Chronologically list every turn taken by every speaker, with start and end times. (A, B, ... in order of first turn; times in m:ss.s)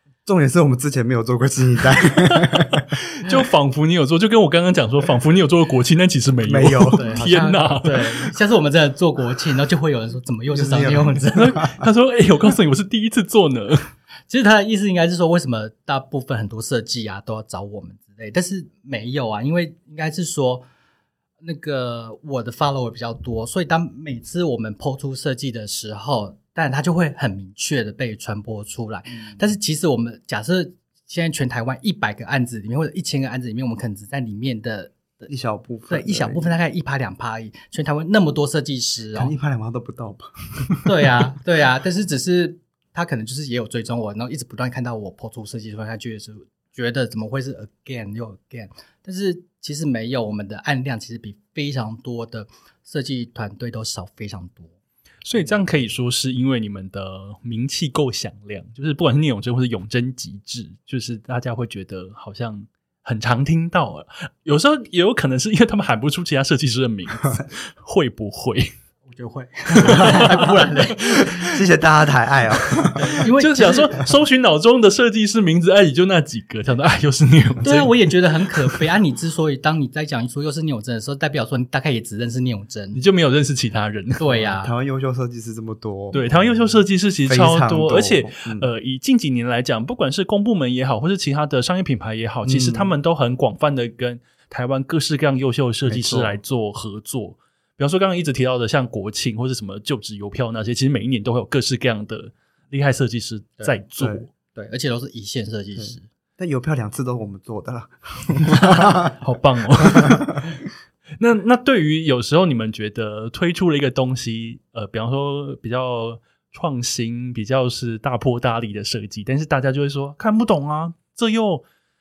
0:00.2-0:02.9 A
0:02.0-0:08.3 B
0:06.4-0:07.6 A
0:07.0-0:11.6 C
0:10.5-0:11.8 A
0:11.3-0:13.9 B
0:14.3-0:20.7 C
0:21.4-0:35.3 C
0:35.3-0:36.5 A
0:35.9-0:39.3 C
0:39.1-0:41.2 A
0:40.8-0:54.7 C
0:55.2-1:08.7 B
1:09.1-1:11.5 C
1:09.7-1:11.5 B
1:09.9-1:10.3 A
1:11.4-1:13.1 A
1:12.8-1:18.1 B
1:13.0-1:14.0 C
1:17.6-1:23.0 C
1:22.9-1:24.2 B
1:24.2-1:24.7 C
1:24.3-1:28.7 A
1:26.1-1:44.3 B
1:32.4-1:32.9 A
1:35.9-1:36.4 A
1:44.5-1:46.0 C
1:45.8-1:49.1 A
1:48.5-1:50.6 B
1:49.8-1:50.4 A
1:51.2-2:01.6 B